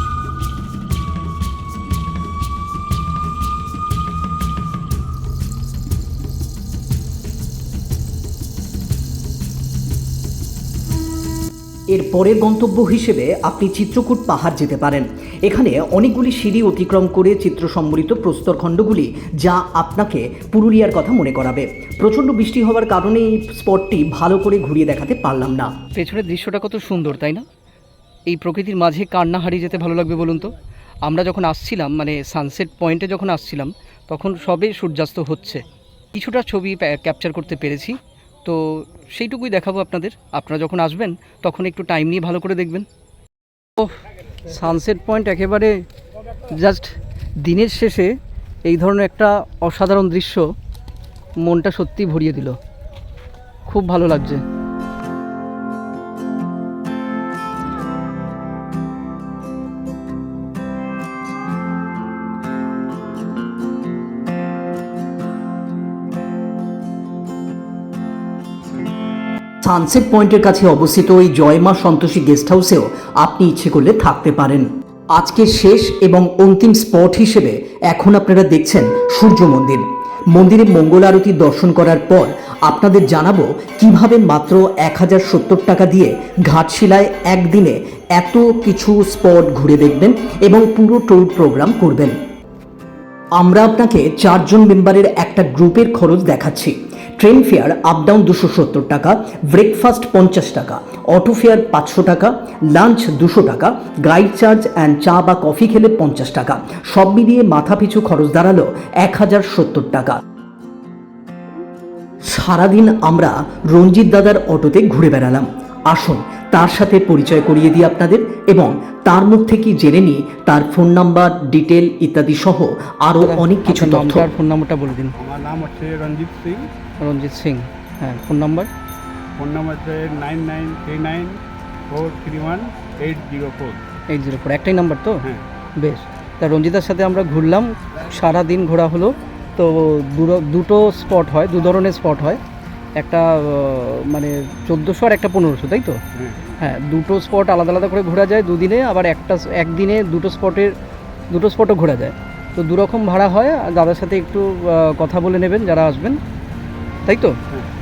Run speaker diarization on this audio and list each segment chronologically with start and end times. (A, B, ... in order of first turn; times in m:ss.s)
0:11.9-0:25.7 A
0:25.9-0:27.4 B
0:28.3-0:30.5 B
0:31.0-0:42.8 B
0:43.8-0:45.8 B
0:46.5-0:48.1 B
0:48.6-0:50.4 B
0:51.4-0:52.6 B
0:53.7-0:54.4 B
1:09.6-1:32.2 A
1:33.4-1:50.2 A
1:52.2-2:04.3 A
2:03.2-2:05.2 B
2:05.2-2:06.7 C
2:07.0-2:08.7 B
2:09.4-2:11.4 C
2:11.9-2:13.8 C
2:14.1-2:22.4 B
2:23.0-2:30.7 B
2:31.3-2:36.2 B
2:37.1-2:37.4 B